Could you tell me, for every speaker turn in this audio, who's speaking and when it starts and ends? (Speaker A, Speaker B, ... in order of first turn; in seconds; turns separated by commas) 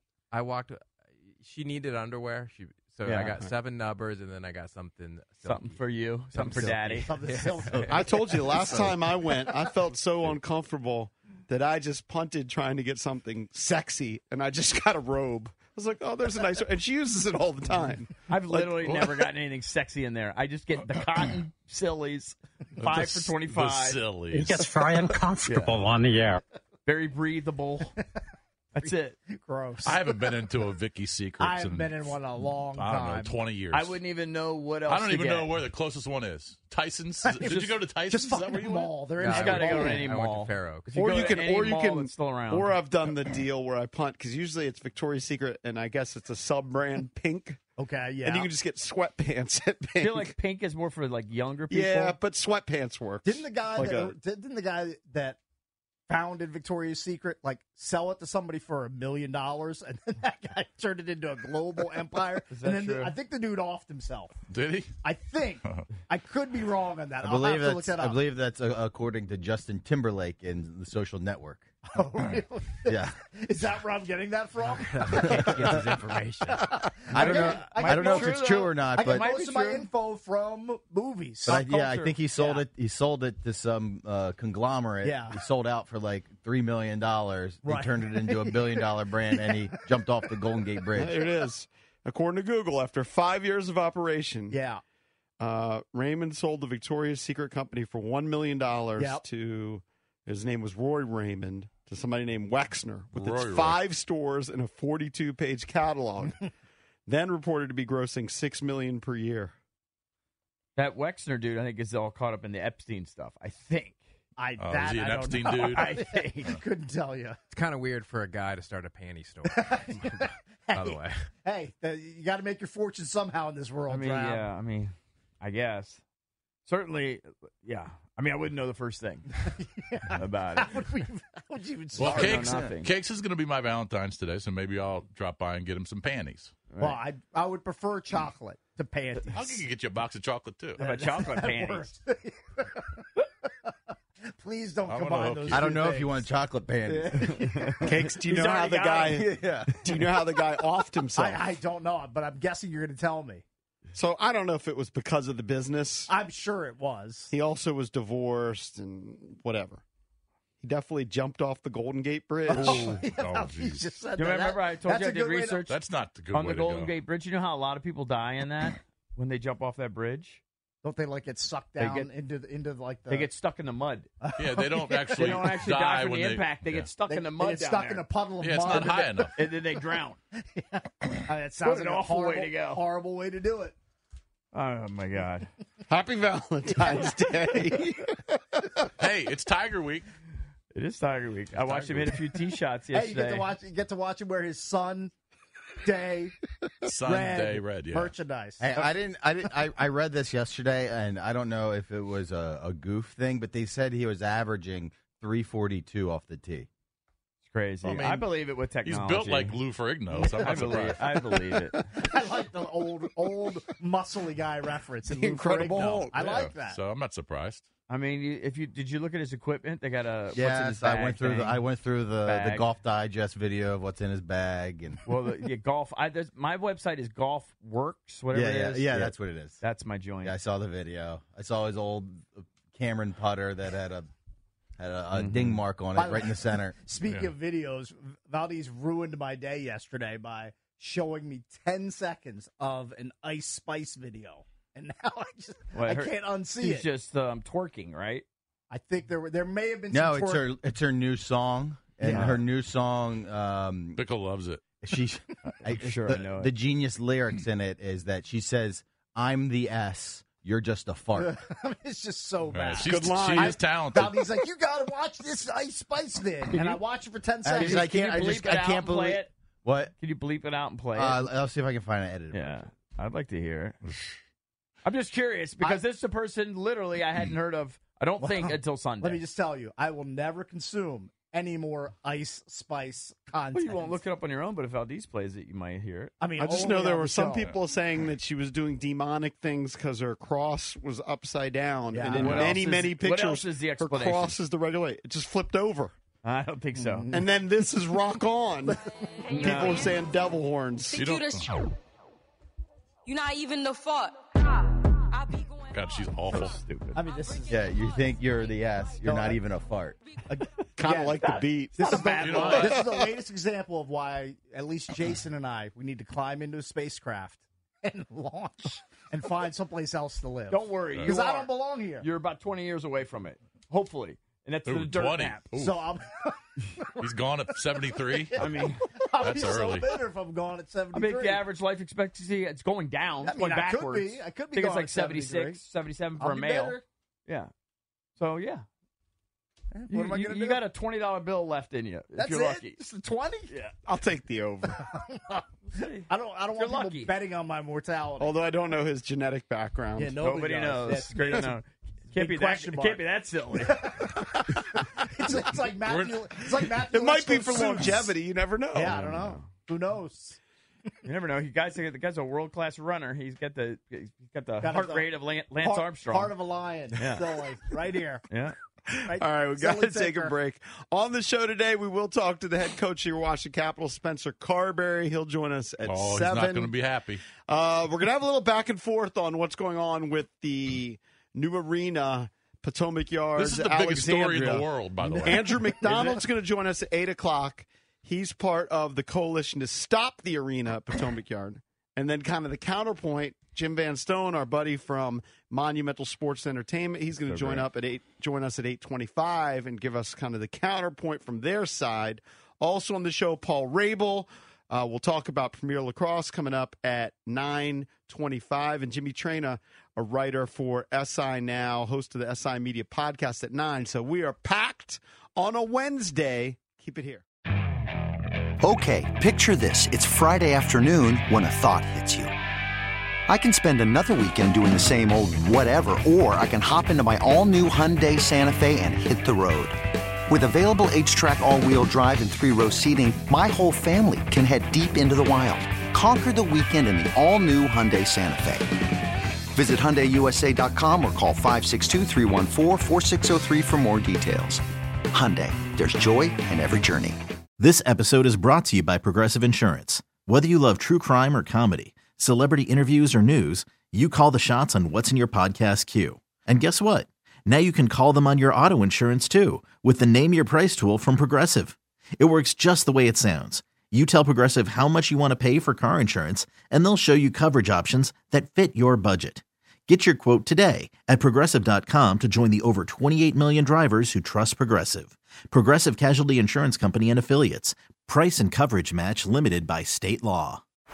Speaker A: 0.3-8.0, Speaker B: 3.1-3.4, Speaker B: 5.4-7.2, Speaker C: 6.5-9.5, Speaker D: 7.9-19.0, Speaker B: 18.3-24.8, Speaker E: 22.8-24.6, Speaker F: 24.3-26.4, Speaker B: 25.4-25.8, Speaker B: 26.9-27.9, Speaker B: 28.8-29.2, Speaker C: 28.8-30.2, Speaker E: 29.8-34.0, Speaker C: 31.4-33.3, Speaker B: 33.7-35.6, Speaker E: 34.9-39.0, Speaker C: 37.2-40.1, Speaker B: 37.4-37.8, Speaker A: 39.2-41.0, Speaker B: 39.3-42.8, Speaker D: 40.9-47.6, Speaker C: 47.8-48.5, Speaker D: 48.2-50.4, Speaker B: 50.0-52.2, Speaker D: 51.7-54.1, Speaker C: 53.2-55.4, Speaker C: 56.1-64.3, Speaker B: 62.5-63.1, Speaker E: 64.5-64.9, Speaker C: 65.0-68.2, Speaker G: 67.2-71.7, Speaker C: 71.9-75.8, Speaker G: 72.8-73.2, Speaker A: 74.9-76.8, Speaker G: 75.2-75.7, Speaker C: 76.7-81.7, Speaker G: 77.1-79.3, Speaker B: 77.1-79.9, Speaker B: 81.5-82.2, Speaker G: 81.5-91.3, Speaker C: 85.0-85.4, Speaker C: 87.6-89.8, Speaker D: 91.0-94.6, Speaker C: 94.5-94.8, Speaker D: 95.4-106.5, Speaker C: 99.0-99.2, Speaker E: 103.1-103.8, Speaker D: 107.1-109.5, Speaker B: 110.8-114.0, Speaker C: 114.4-117.4, Speaker E: 114.6-115.9, Speaker B: 115.5-116.5, Speaker A: 117.5-121.2, Speaker C: 119.5-124.5, Speaker B: 123.9-126.0, Speaker B: 126.7-129.3, Speaker C: 129.6-132.6, Speaker B: 130.1-130.8, Speaker B: 132.0-132.9, Speaker E: 132.0-136.5, Speaker B: 136.7-137.0, Speaker C: 136.8-139.6, Speaker E: 139.3-140.8, Speaker B: 140.8-141.9, Speaker C: 140.8-143.1, Speaker C: 144.3-146.3, Speaker E: 144.9-145.7, Speaker G: 145.5-147.8, Speaker C: 146.9-147.9, Speaker B: 147.7-149.3, Speaker D: 147.8-151.4, Speaker G: 149.2-149.7, Speaker C: 151.2-153.4, Speaker D: 153.9-156.1, Speaker C: 156.1-157.3, Speaker D: 157.3-159.8, Speaker D: 160.6-163.0, Speaker C: 162.5-165.7, Speaker E: 162.5-163.9, Speaker B: 164.2-165.8, Speaker E: 165.7-166.9, Speaker B: 166.3-170.4, Speaker C: 170.8-173.3, Speaker B: 171.8-172.1, Speaker B: 173.1-174.1, Speaker C: 174.2-175.6, Speaker E: 174.4-176.9, Speaker B: 175.1-178.1, Speaker C: 177.1-179.3, Speaker E: 178.4-179.4, Speaker B: 179.4-180.2, Speaker C: 180.5-183.8, Speaker B: 181.6-182.8, Speaker B: 184.5-185.5, Speaker D: 185.9-188.9, Speaker E: 189.0-190.1, Speaker B: 190.7-193.5, Speaker E: 191.7-192.2, Speaker C: 192.9-195.1, Speaker C: 195.8-196.3, Speaker E: 196.8-198.1, Speaker C: 197.0-198.9, Speaker G: 198.6-206.7, Speaker B: 207.5-209.6, Speaker E: 207.8-208.3, Speaker E: 208.8-211.2, Speaker B: 210.1-211.9, Speaker C: 211.9-216.8, Speaker D: 215.1-216.4, Speaker E: 215.7-217.7, Speaker B: 217.9-221.7, Speaker G: 220.3-225.0, Speaker B: 222.2-222.7, Speaker B: 225.1-230.4, Speaker G: 228.3-229.6, Speaker G: 230.2-234.1, Speaker G: 234.8-236.8, Speaker B: 235.1-235.6, Speaker C: 235.9-246.9, Speaker B: 245.7-248.2, Speaker C: 248.7-250.5, Speaker G: 249.9-254.0, Speaker C: 252.0-252.4, Speaker B: 252.1-252.4, Speaker E: 254.0-254.6, Speaker G: 254.8-261.4, Speaker B: 255.7-256.5, Speaker C: 261.2-268.3, Speaker E: 262.5-264.2, Speaker D: 262.8-263.6, Speaker G: 267.4-269.9, Speaker B: 267.5-269.3, Speaker B: 270.0-271.3, Speaker G: 270.9-272.7, Speaker B: 272.3-273.8, Speaker B: 274.8-279.2, Speaker C: 278.2-284.0, Speaker B: 283.5-286.2, Speaker C: 286.2-287.5, Speaker D: 286.4-295.9, Speaker C: 291.9-292.6, Speaker B: 292.1-294.4, Speaker E: 292.2-292.5, Speaker B: 296.2-297.1, Speaker C: 296.8-297.2, Speaker D: 297.1-301.0, Speaker H: 299.2-300.0, Speaker B: 299.4-299.9, Speaker H: 300.9-301.7, Speaker E: 300.9-301.6, Speaker H: 303.1-306.1, Speaker E: 305.7-306.6, Speaker B: 306.3-307.0, Speaker C: 306.9-307.7, Speaker H: 307.0-309.0, Speaker G: 307.5-309.9, Speaker C: 309.0-309.4, Speaker C: 310.3-322.1, Speaker D: 310.8-313.1, Speaker B: 310.9-312.7, Speaker E: 312.2-312.9, Speaker B: 320.5-325.5, Speaker E: 324.7-325.8, Speaker C: 325.5-327.1, Speaker E: 327.0-328.6, Speaker C: 328.0-331.4, Speaker B: 328.4-328.9, Speaker E: 329.2-329.9, Speaker B: 330.9-337.5, Speaker C: 333.2-335.6, Speaker C: 336.2-336.8, Speaker B: 338.2-338.6, Speaker C: 339.7-340.6, Speaker B: 339.9-342.8, Speaker C: 342.1-343.6, Speaker B: 343.5-343.8, Speaker D: 343.9-344.9, Speaker C: 344.9-348.3, Speaker B: 345.7-347.1, Speaker D: 348.2-350.2, Speaker C: 350.0-351.5, Speaker B: 350.2-354.0, Speaker C: 352.1-353.0, Speaker C: 353.6-358.1, Speaker E: 355.9-356.4, Speaker D: 356.8-359.1, Speaker C: 358.7-360.4, Speaker B: 358.9-359.4, Speaker B: 361.0-366.3, Speaker C: 364.6-368.3, Speaker B: 366.9-367.4, Speaker B: 368.3-368.6, Speaker D: 368.9-376.7, Speaker C: 369.1-370.3, Speaker E: 375.8-377.2, Speaker D: 377.4-384.7, Speaker E: 383.4-385.6, Speaker C: 385.0-386.2, Speaker D: 385.2-417.2, Speaker E: 397.3-397.7, Speaker I: 418.6-422.3, Speaker I: 423.3-438.8, Speaker I: 439.5-447.2, Speaker J: 447.6-480.6